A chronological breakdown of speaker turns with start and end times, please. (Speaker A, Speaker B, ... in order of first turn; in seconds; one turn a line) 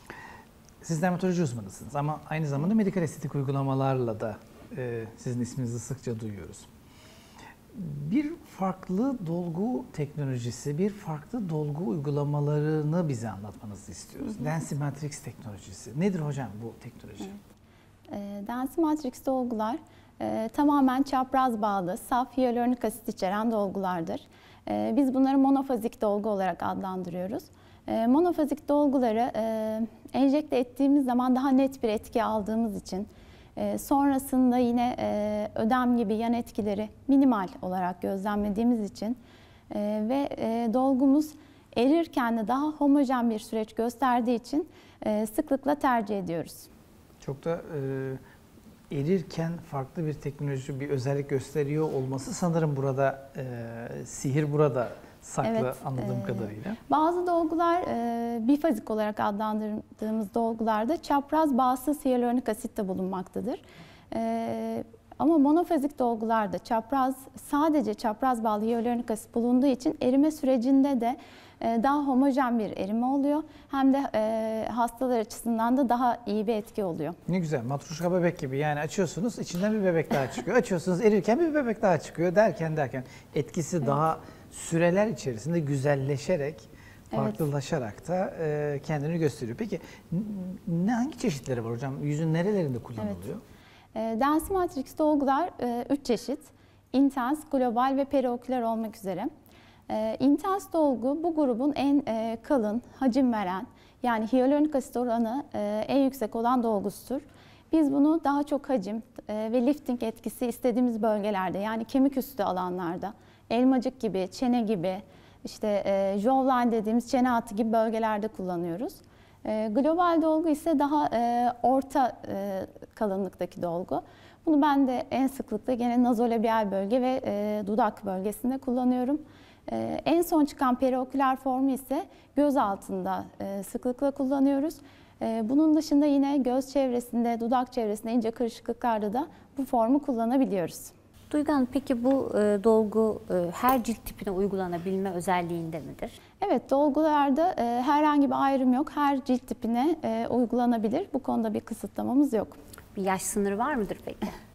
Speaker A: 0.8-6.7
Speaker A: 7.7-17.3
Speaker B: 18.1-39.2
Speaker B: 39.7-46.7
Speaker A: 47.2-48.2
Speaker A: 48.9-56.8
Speaker B: 55.4-77.2
Speaker A: 77.3-93.4
Speaker B: 87.1-87.4
Speaker B: 93.0-93.2
Speaker B: 93.9-99.3
Speaker B: 99.9-140.9
Speaker C: 141.3-146.2
Speaker B: 146.4-152.6
Speaker C: 152.9-154.3